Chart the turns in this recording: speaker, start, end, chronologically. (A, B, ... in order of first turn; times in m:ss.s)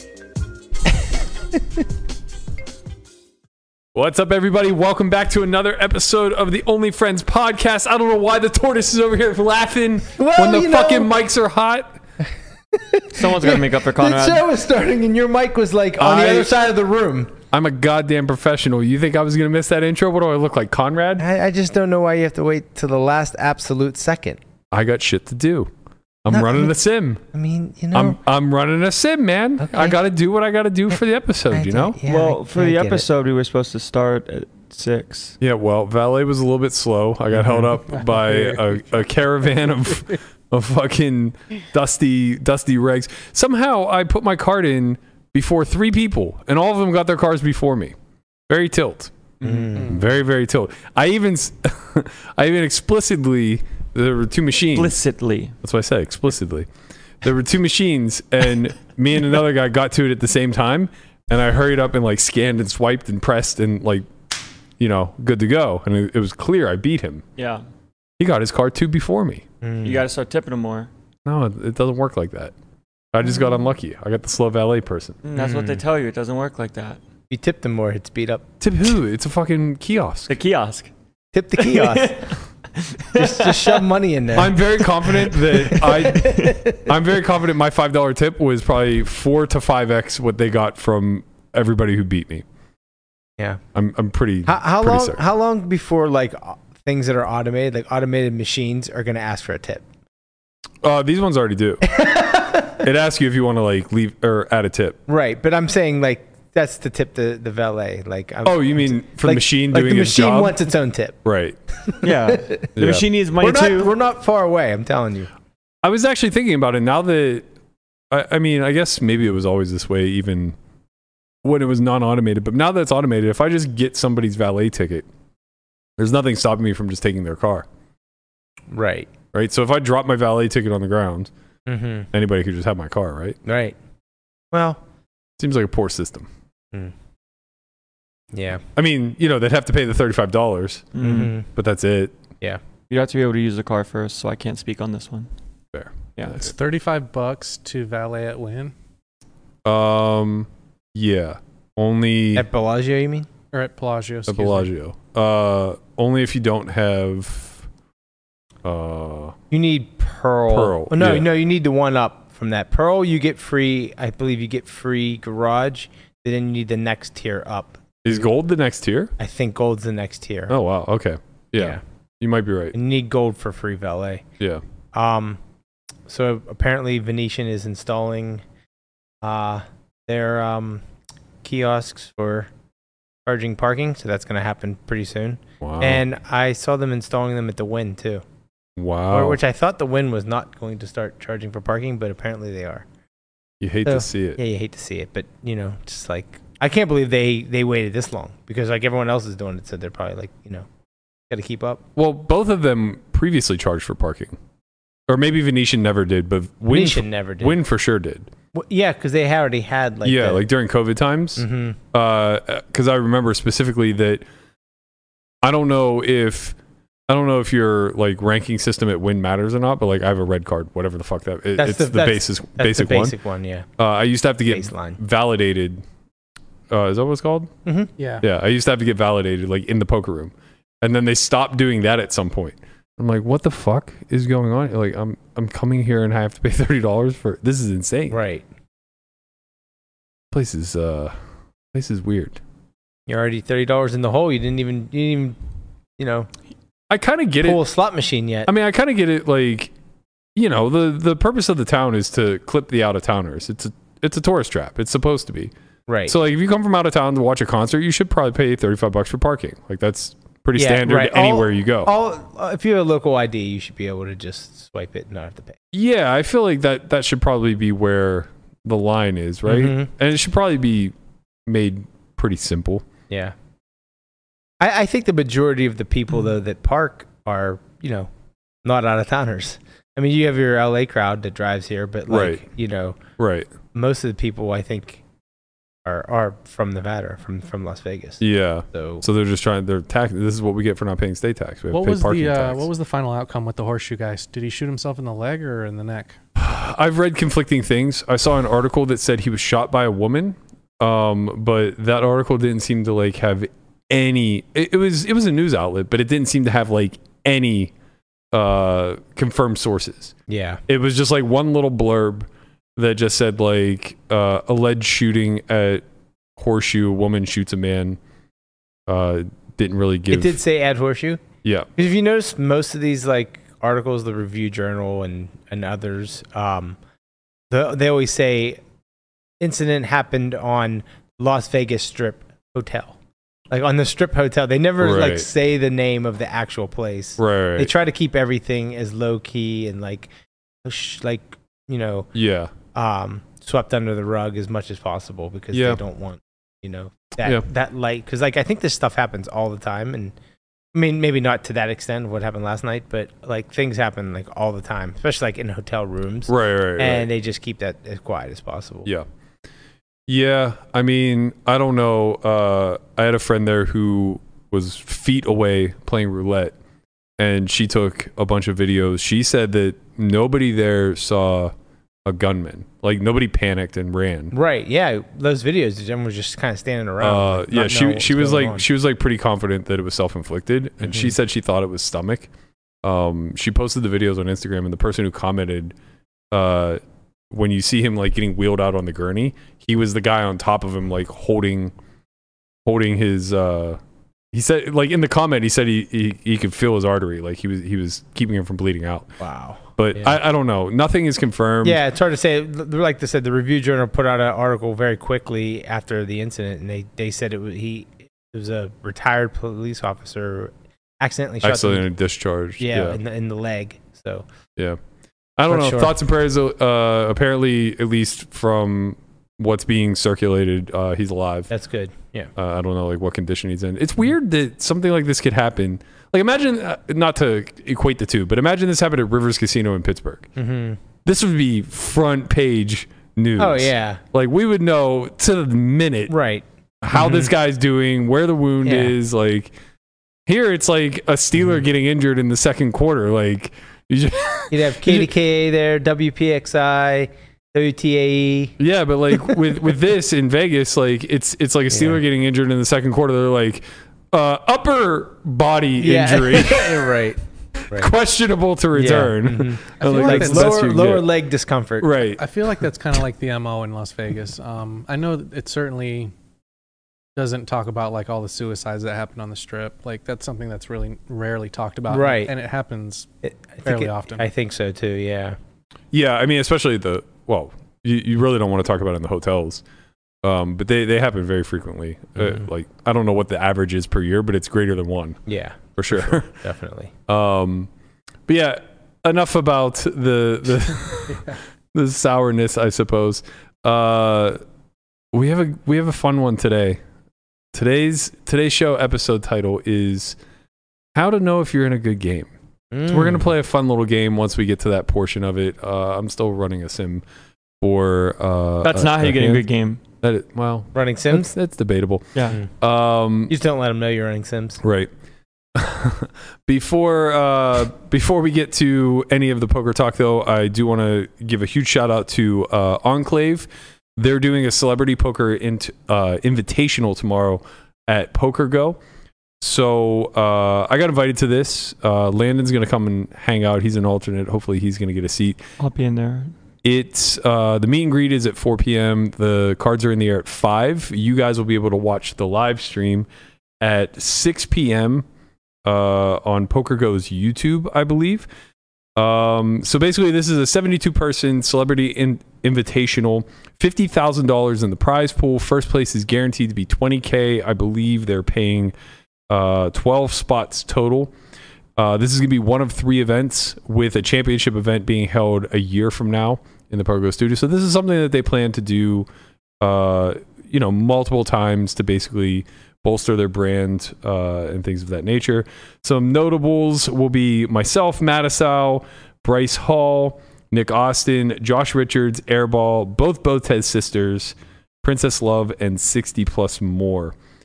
0:03.9-0:12.0 A
0:10.1-0:11.1 B
0:12.7-0:17.3 B
0:13.1-0:14.4 C
0:16.0-0:16.5 A
0:17.5-0:21.2 A
0:21.2-0:24.4 B
0:24.7-0:25.7 A
0:26.2-0:27.2 A
0:26.3-0:26.7 B
0:27.3-0:28.2 B
0:27.9-0:32.0 A
0:29.6-0:30.0 B
0:31.5-0:33.0 B
0:32.0-0:35.3 C
0:35.4-0:48.0 A
0:37.9-0:38.8 D
0:48.5-0:54.9 A
0:49.4-0:49.7 C
0:49.4-0:50.0 B
0:49.8-0:50.0 D
0:54.7-0:55.5 C
0:55.6-0:56.7 A
0:57.2-1:04.1 A
1:04.8-1:07.2 A
1:07.4-1:07.6 C
1:08.2-1:09.4 A
1:09.6-1:10.0 B
1:09.8-1:10.9 C
1:11.2-1:12.5 A
1:13.1-1:15.2 A
1:15.2-1:17.0 C
1:15.4-1:15.8 B
1:17.3-1:18.5 B
1:18.6-1:20.3 A
1:20.3-1:20.9 C
1:21.3-1:22.3 B
1:21.6-1:23.8 C
1:23.1-1:24.6 B
1:24.3-1:32.4 A
1:25.7-1:26.9 B
1:26.2-1:26.6 C
1:33.7-1:35.2 A
1:34.4-1:39.8 B
1:40.8-1:42.0 A
1:41.8-1:42.8 B
1:42.7-1:45.0 A
1:45.1-1:51.2 B
1:48.4-1:50.6 A
1:51.2-1:51.6 A
1:51.9-1:52.6 B
1:52.0-1:53.9 C
1:52.8-1:53.1 A
1:53.4-1:55.3 B
1:55.8-1:57.5 A
1:58.1-2:00.6 A
2:01.4-2:05.1 A
2:06.0-2:07.6 A
2:08.7-2:09.1 B
2:09.3-2:11.3 A
2:11.7-2:12.1 B
2:12.1-2:13.4 A
2:13.4-2:13.7 B
2:14.5-2:14.8 B
2:15.4-2:16.3 A
2:18.3-2:18.6 B
2:18.7-2:22.2 A
2:20.9-2:21.3 C
2:21.0-2:21.5 B
2:22.9-2:25.3 C
2:25.7-2:26.5 A
2:26.4-2:28.7 D
2:29.6-2:32.5 A
2:32.3-2:33.3 B
2:33.5-2:34.7 D
2:34.3-2:37.6 A
2:38.6-2:39.4 A
2:39.5-2:48.1 B
2:40.5-2:41.3 A
2:48.0-2:49.1 A
2:49.2-2:50.6 B
2:50.5-2:52.8 A
2:52.7-2:54.2 B
2:54.9-2:55.4 B
2:56.1-2:58.4 B
2:59.2-3:00.8 B
3:01.4-3:02.5 B
3:03.2-3:08.2 B
3:05.6-3:06.0 A
3:08.8-3:09.4 A
3:09.1-3:12.8 B
3:13.6-3:14.4 A
3:13.8-3:20.6 B
3:21.3-3:21.8 B
3:22.0-3:24.4 A
3:25.1-3:28.3 A
3:26.7-3:27.6 B
3:28.5-3:30.4 B
3:30.0-3:34.2 A
3:31.4-3:31.8 B
3:35.4-3:36.6 A
3:37.1-3:43.2 A
3:41.6-3:43.7 B
3:43.8-3:45.8 A
3:44.5-3:45.0 B
3:46.7-3:47.5 A
3:47.6-3:47.9 B
3:48.0-3:48.2 D
3:48.2-3:58.2 A
3:58.1-3:58.4 B
4:00.3-4:01.1 A
4:01.7-4:02.4 A
4:03.1-4:05.4 B
4:06.0-4:06.3 B
4:06.9-4:07.6 A
4:07.4-4:08.5 B
4:08.4-4:09.7 A
4:10.4-4:15.5 A
4:15.9-4:16.1 B
4:16.1-4:21.9 A
4:20.6-4:25.6 B
4:25.7-4:30.9 A
4:29.4-4:29.9 B
4:31.4-4:32.9 A
4:33.1-4:33.3 B
4:34.6-4:38.1 B
4:38.6-4:43.0 B
4:42.1-4:42.4 A
4:43.2-4:43.5 A
4:43.7-4:45.0 B
4:45.8-4:48.2 B
4:48.2-4:52.7 A
4:48.7-4:49.0 B
4:51.7-4:56.2 D
4:56.4-5:07.7 A
5:08.3-5:10.1 A
5:10.3-5:10.6 B
5:10.7-5:15.8 A
5:16.4-5:18.0 A
5:18.9-5:20.4 A
5:20.1-5:21.2 B
5:21.8-5:26.8 B
5:27.5-5:28.6 B
5:29.4-5:32.9 B
5:33.5-5:40.1 B
5:34.8-5:35.3 A
5:37.2-5:37.7 A
5:40.6-5:42.1 B
5:42.1-5:42.5 A
5:42.7-5:50.1 B
5:45.5-5:45.8 A
5:50.7-5:58.9 B
5:56.3-5:57.1 A
6:00.1-6:06.5 A
6:07.2-6:11.5 A
6:12.0-6:14.3 A
6:14.3-6:18.6 B
6:17.0-6:22.3 A
6:20.8-6:21.1 B
6:22.8-6:25.8 A
6:26.3-6:26.8 A
6:27.3-6:31.7 A
6:32.6-6:33.8 A
6:34.3-6:39.1 A
6:39.2-6:40.2 B
6:39.8-6:41.8 A
6:41.6-6:51.8 B
6:51.4-6:53.0 A
6:52.6-6:54.2 B
6:55.4-7:01.5 A
6:55.5-6:55.9 B
7:01.5-7:02.3 B
7:02.4-7:10.3 A
7:10.4-7:10.8 B
7:11.0-7:16.1 A
7:13.4-7:14.0 B
7:16.1-7:17.3 B
7:16.8-7:19.5 A
7:18.6-7:18.9 B
7:20.2-7:25.1 A
7:24.5-7:28.5 B
7:28.6-7:37.0 A
7:29.1-7:29.4 B
7:31.7-7:32.0 B
7:35.8-7:37.9 B
7:37.7-7:41.0 A
7:38.7-7:42.0 B
7:39.8-7:40.6 D
7:41.8-7:42.2 A
7:42.2-7:46.1 D
7:47.2-7:53.1 D
7:51.9-7:52.3 B
7:53.2-7:55.4 B
7:53.6-7:54.2 D
7:55.9-7:59.6 A
8:00.2-8:05.2 A
8:02.2-8:02.4 B
8:05.3-8:06.9 B
8:05.8-8:06.3 A
8:07.1-8:07.7 A
8:08.3-8:14.4 A
8:15.1-8:16.8 A
8:17.5-8:20.2 A
8:20.9-8:22.3 A
8:22.7-8:23.3 B
8:22.9-8:27.0 A
8:27.6-8:29.4 A
8:28.6-8:29.8 C
8:30.0-8:33.3 A
8:30.7-8:31.3 B
8:33.3-8:34.6 B
8:34.6-8:34.9 A
8:35.5-8:48.8 A
8:49.4-8:55.4 A
8:55.6-8:56.3 C
8:56.6-9:03.1 A
9:03.6-9:05.0 A
9:05.6-9:08.3 A
9:09.0-9:18.7 A
9:19.3-9:21.1 A
9:21.8-9:29.1 A
9:29.6-9:47.1 A